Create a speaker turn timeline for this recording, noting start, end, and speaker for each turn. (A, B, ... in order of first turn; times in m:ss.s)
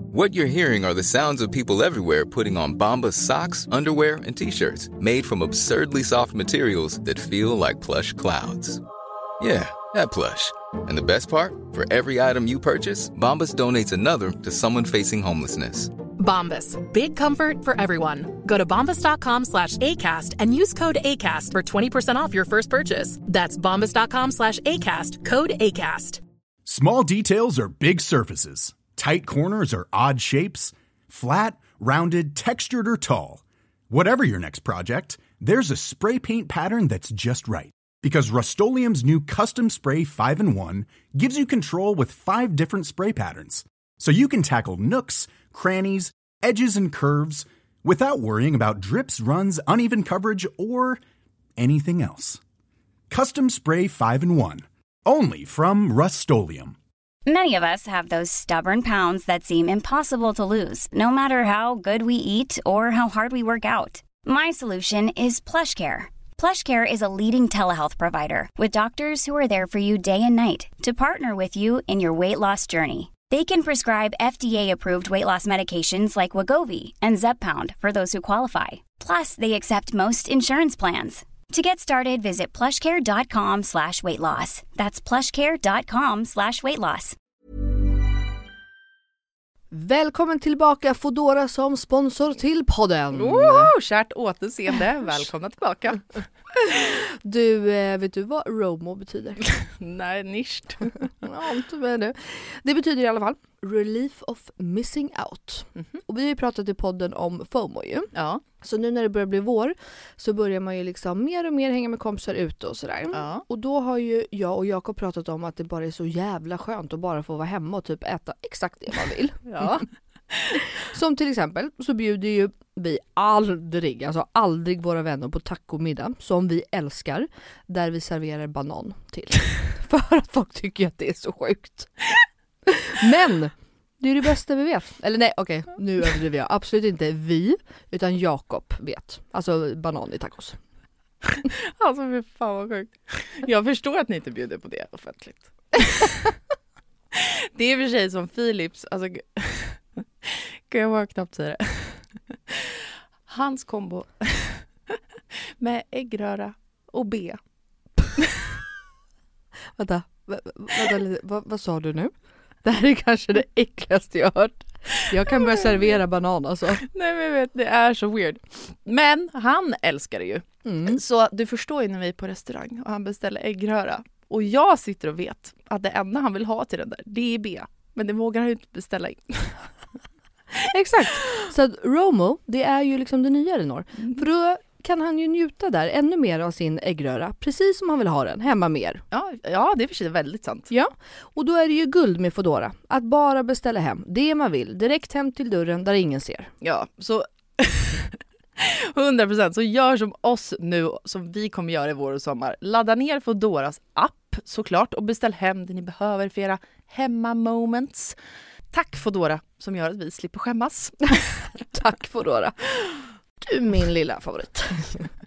0:00.1-0:08.8 A
0:09.4-0:15.9 A
0:16.2-0:26.2 B
0:26.7-0:51.0 C
0:51.6-0:52.4 C
0:53.1-0:56.8 C
0:57.3-1:27.2 D
1:29.7-1:33.7 E
1:33.1-1:36.0 F
1:36.6-1:39.5 E
1:39.6-1:40.9 F
1:41.2-1:48.1 E
1:48.6-1:59.8 E
1:53.1-1:53.4 F
2:00.9-2:11.9 E
2:12.7-2:20.6 E
2:21.8-2:26.2 F
2:27.1-2:32.7 F
2:33.3-2:34.6 F
2:35.6-2:37.4 F
2:39.8-2:42.1 E
2:42.6-2:46.8 E
2:46.8-2:59.6 F
2:50.7-2:51.0 E
3:00.7-3:09.0 E
3:09.1-3:10.7 F
3:10.7-3:16.5 E
3:16.6-3:28.2 F
3:28.7-3:31.2 F
3:31.7-3:32.6 E
3:33.4-3:35.0 E